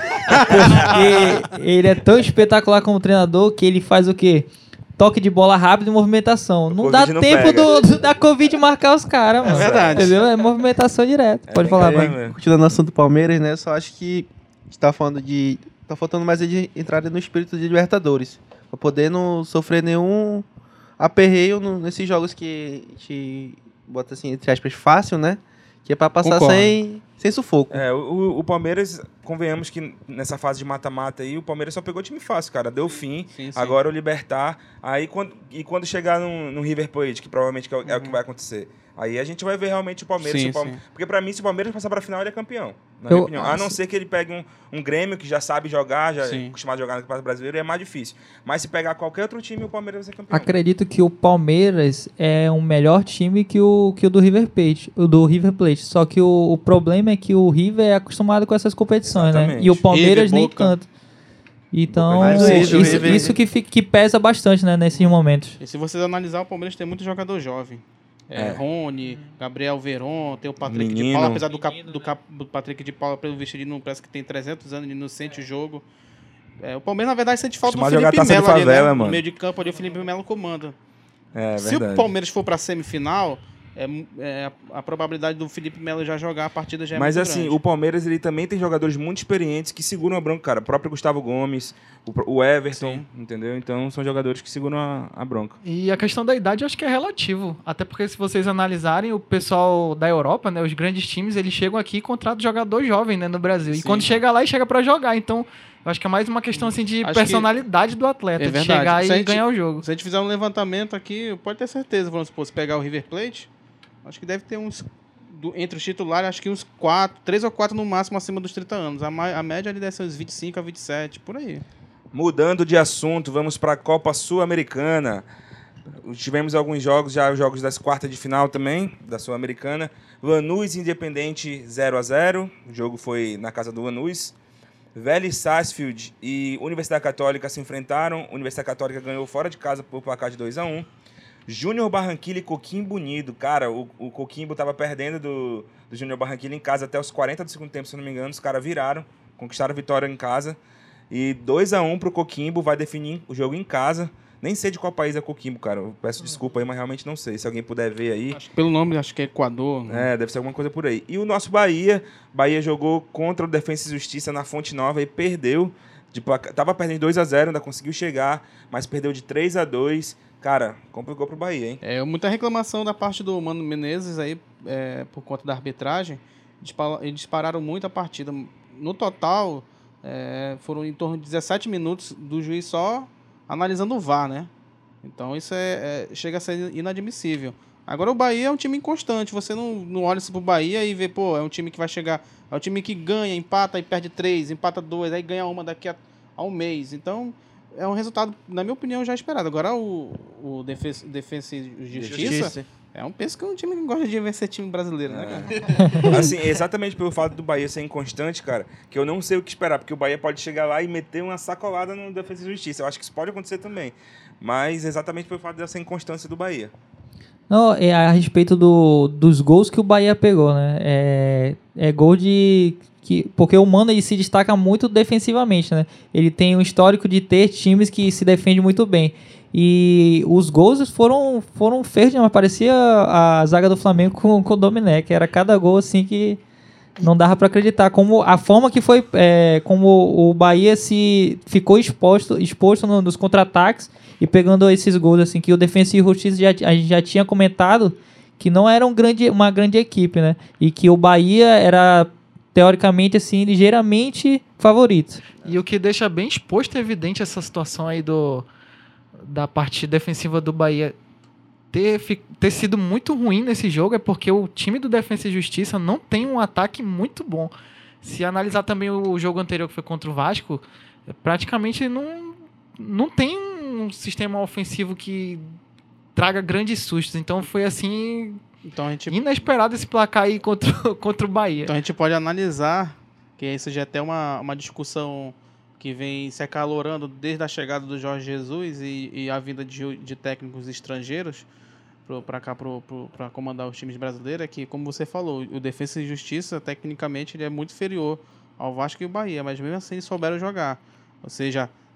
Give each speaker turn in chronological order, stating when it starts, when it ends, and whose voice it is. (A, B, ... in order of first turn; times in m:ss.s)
0:00.4-0:01.3 A
0:00.5-0:12.2 B
0:06.7-0:07.8 A
0:09.4-0:10.2 A
0:09.4-0:10.2 C
0:11.5-0:12.4 A
0:11.8-0:20.4 D
0:21.0-0:27.8 D
0:26.2-0:26.8 C
0:27.7-0:50.5 A
0:33.3-0:33.8 C
0:37.8-0:38.2 C
0:40.2-0:40.8 C
0:43.1-0:43.8 B
0:46.2-0:46.5 C
0:50.3-1:00.9 B
0:59.1-0:59.9 A
0:59.9-1:00.7 C
1:01.7-1:05.6 B
1:01.9-1:03.3 A
1:02.2-1:03.2 C
1:02.3-1:03.4 D
1:05.6-1:15.8 C
1:08.3-1:08.6 A
1:10.6-1:11.4 A
1:16.6-1:20.8 C
1:17.7-1:19.2 A
1:21.3-1:22.1 A
1:21.6-1:27.6 C
1:26.9-1:35.6 A
1:32.7-1:33.0 C
1:35.6-1:49.8 E
1:43.7-1:44.2 C
1:46.5-1:47.5 C
1:48.4-1:53.5 C
1:54.0-2:01.6 C
2:02.1-2:05.2 A
2:06.0-2:14.3 A
2:14.9-2:20.9 A
2:21.5-2:30.6 A
2:31.1-2:38.4 A
2:38.3-2:40.1 C
2:39.9-2:51.8 A
2:51.8-3:04.5 C
3:05.0-3:26.1 C
3:21.9-3:22.5 A
3:22.1-3:22.6 D
3:25.1-3:36.7 A
3:25.8-3:26.1 B
3:37.5-3:56.4 B
3:57.0-4:15.2 B
4:15.4-4:18.4 E
4:19.2-4:20.9 E
4:21.7-4:35.4 E
4:36.1-4:38.4 E
4:38.7-4:39.2 C
4:39.1-4:41.7 E
4:41.6-4:51.5 C
4:52.0-5:01.7 C